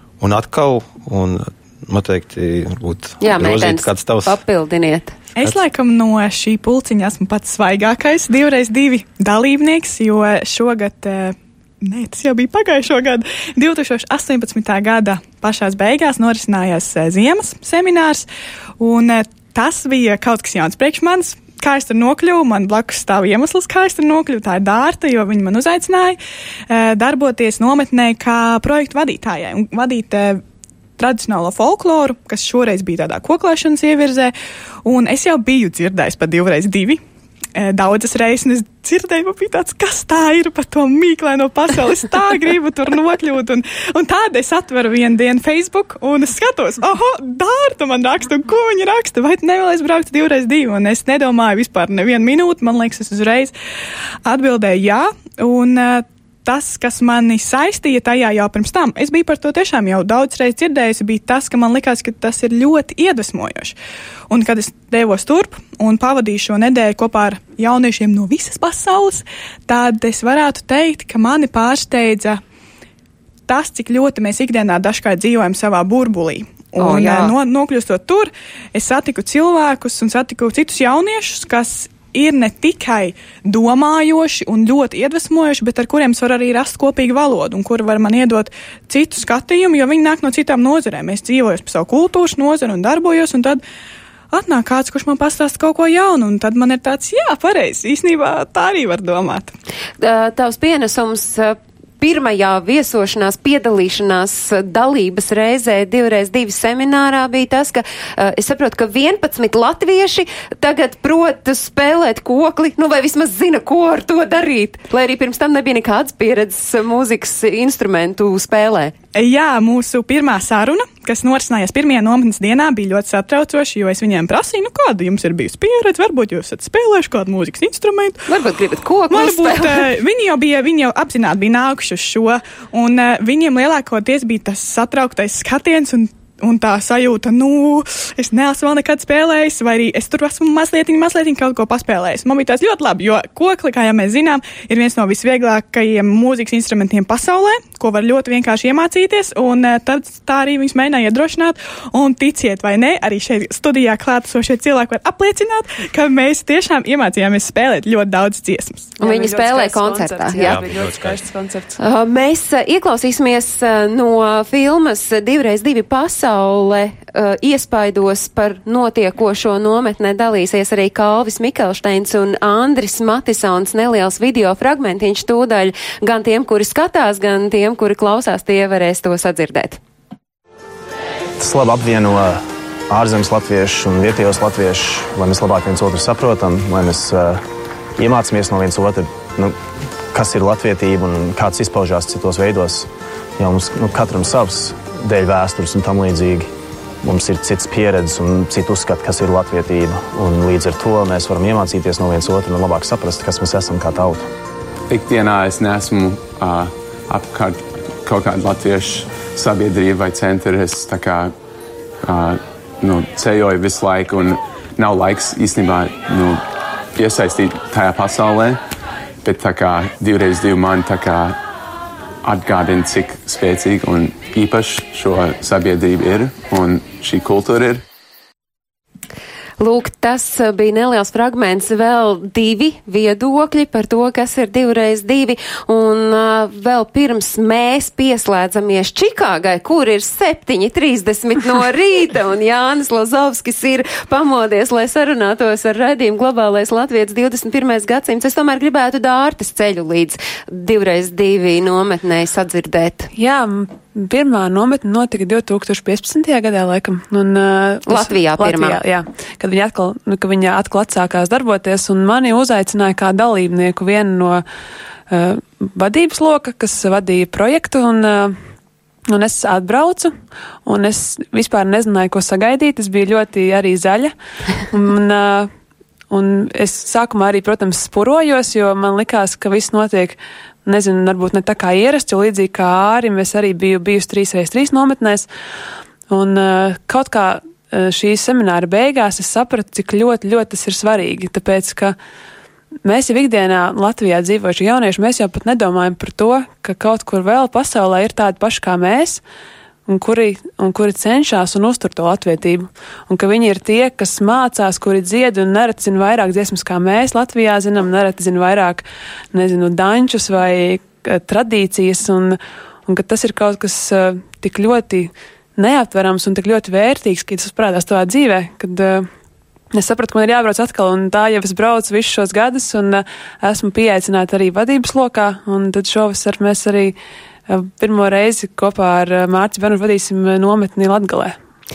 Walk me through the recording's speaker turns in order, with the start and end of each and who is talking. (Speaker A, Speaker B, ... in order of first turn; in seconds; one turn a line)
Speaker A: 0.2-4.3
Speaker B: 3.2-5.1
Speaker C: 5.3-18.2
Speaker C: 18.8-26.2
Speaker C: 26.7-30.4
Speaker C: 31.0-34.3
Speaker C: 34.8-37.0
Speaker C: 37.5-53.5
Speaker C: 54.2-63.7
Speaker C: 64.3-72.4
Speaker C: 73.5-93.6
Speaker B: 76.8-77.3
Speaker C: 94.3-99.5
Speaker B: 100.0-118.9
Speaker C: 119.1-128.2
Speaker B: 128.3-129.9
Speaker C: 129.1-158.9
Speaker D: 159.0-161.8
Speaker B: 159.0-160.6
Speaker A: 160.4-161.2
Speaker B: 161.8-179.8
Speaker E: 181.4-187.4
Speaker E: 188.0-189.6
Speaker E: 190.1-192.9
Speaker E: 193.4-196.5
Speaker E: 197.0-204.3
Speaker F: 204.9-211.3
Speaker F: 212.0-218.6
Speaker F: 219.2-221.4
Speaker F: 222.2-227.8
Speaker B: 229.6-253.1
Speaker D: 253.1-264.4
Speaker B: 257.9-258.8
Speaker D: 265.1-268.4
Speaker D: 269.1-275.5
Speaker D: 276.1-285.3
Speaker D: 286.1-291.9
Speaker D: 292.8-299.2
Speaker D: 299.9-319.1
Speaker D: 319.7-326.9
Speaker D: 327.5-331.3